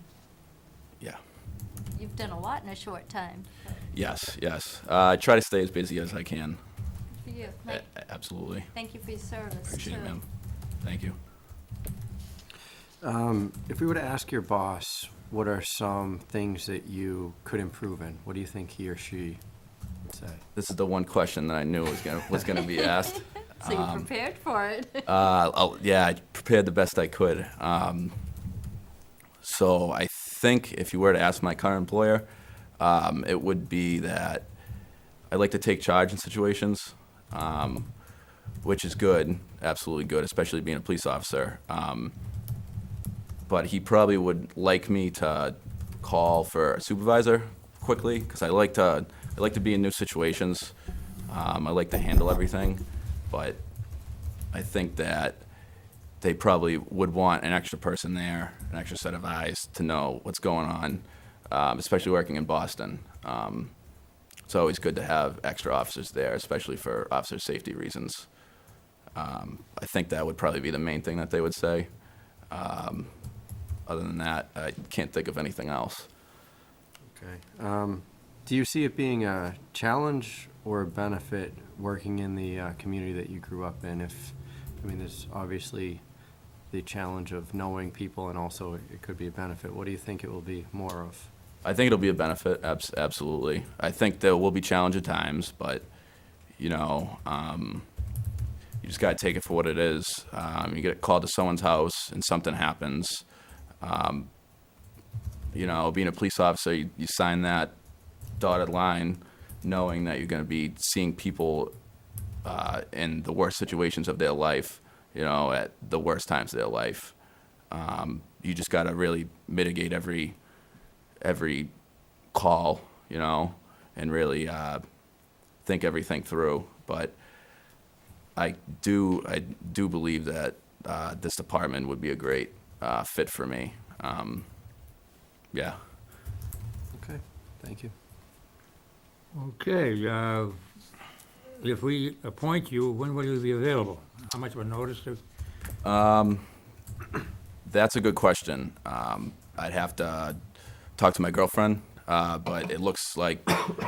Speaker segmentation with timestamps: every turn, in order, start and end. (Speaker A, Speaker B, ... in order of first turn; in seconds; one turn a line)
Speaker A: 1.9-3.8
Speaker B: 3.9-6.6
Speaker A: 7.2-7.9
Speaker B: 7.7-8.7
Speaker A: 8.7-10.2
Speaker B: 9.7-10.2
Speaker B: 10.8-11.2
Speaker C: 13.0-19.4
Speaker C: 20.1-20.4
Speaker B: 20.6-24.1
Speaker A: 23.6-25.1
Speaker B: 25.1-28.2
Speaker B: 29.4-32.3
Speaker B: 32.8-34.5
Speaker B: 35.3-37.9
Speaker B: 38.6-42.1
Speaker B: 43.5-50.7
Speaker B: 51.3-53.6
Speaker B: 54.5-55.5
Speaker B: 56.2-63.7
Speaker B: 64.5-68.3
Speaker B: 69.1-73.2
Speaker B: 73.8-76.1
Speaker C: 77.1-86.0
Speaker C: 86.7-91.3
Speaker B: 91.6-95.9
Speaker B: 96.5-97.9
Speaker B: 98.8-103.2
Speaker B: 103.8-104.3
Speaker B: 105.5-107.7
Speaker B: 108.4-111.7
Speaker B: 112.4-117.1
Speaker B: 117.7-120.4
Speaker B: 121.2-121.7
Speaker B: 122.3-124.8
Speaker B: 125.6-127.2
Speaker B: 128.4-134.5
Speaker B: 135.5-135.8
Speaker C: 136.9-137.9
Speaker D: 139.3-140.6
Speaker D: 141.6-145.2
Speaker B: 145.8-146.5
Speaker B: 147.6-150.4
Speaker B: 151.0-153.7